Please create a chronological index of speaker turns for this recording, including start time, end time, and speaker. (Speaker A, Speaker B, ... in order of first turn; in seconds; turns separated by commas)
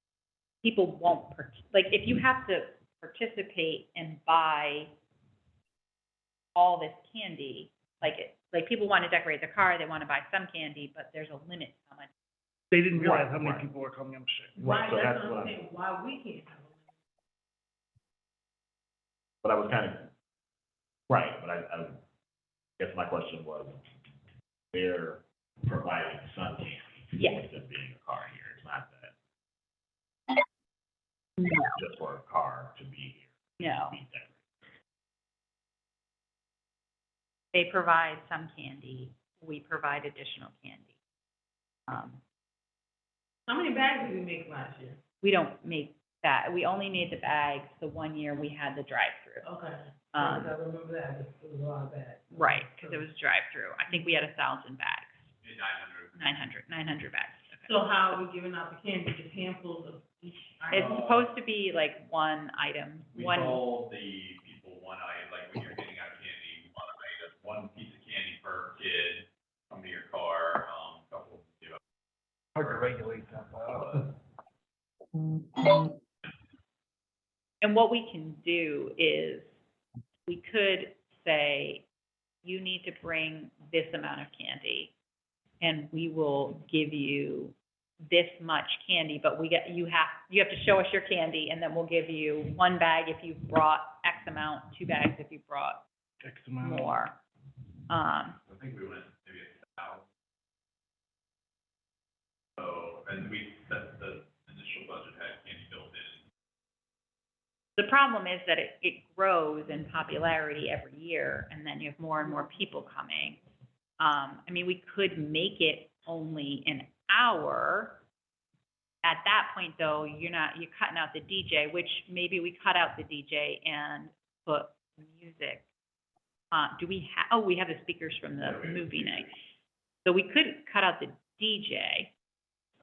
Speaker A: 0.6-4.9, Speaker A: 6.5-12.1, Speaker B: 12.7-14.5, Speaker C: 12.9-13.7, Speaker C: 14.6-15.6, Speaker D: 14.6-16.9, Speaker C: 19.4-20.1, Speaker C: 21.1-22.0, Speaker C: 22.8-23.8, Speaker C: 24.7-29.1, Speaker A: 27.2-27.4, Speaker A: 31.4-31.7, Speaker C: 31.7-34.5, Speaker A: 33.6-34.0, Speaker A: 37.5-40.9, Speaker A: 41.9-42.2, Speaker D: 43.5-45.0, Speaker A: 45.2-49.5, Speaker D: 49.4-53.0, Speaker A: 50.1-50.5, Speaker A: 52.3-55.3, Speaker E: 55.4-56.1, Speaker A: 56.1-57.8, Speaker D: 57.7-61.1, Speaker A: 60.7-63.6, Speaker E: 60.7-61.3, Speaker E: 63.1-71.8, Speaker B: 72.5-74.1, Speaker E: 72.6-72.9, Speaker E: 73.7-74.0, Speaker A: 77.6-79.5, Speaker A: 80.2-81.8, Speaker A: 82.4-84.9, Speaker A: 85.6-95.8, Speaker B: 96.2-97.0, Speaker A: 96.6-97.2, Speaker A: 97.9-98.4, Speaker E: 98.5-100.0, Speaker E: 102.6-106.2, Speaker A: 107.8-113.4, Speaker A: 114.0-118.0, Speaker A: 119.0-125.7, Speaker A: 126.5-129.3, Speaker E: 128.4-129.3, Speaker A: 130.0-132.1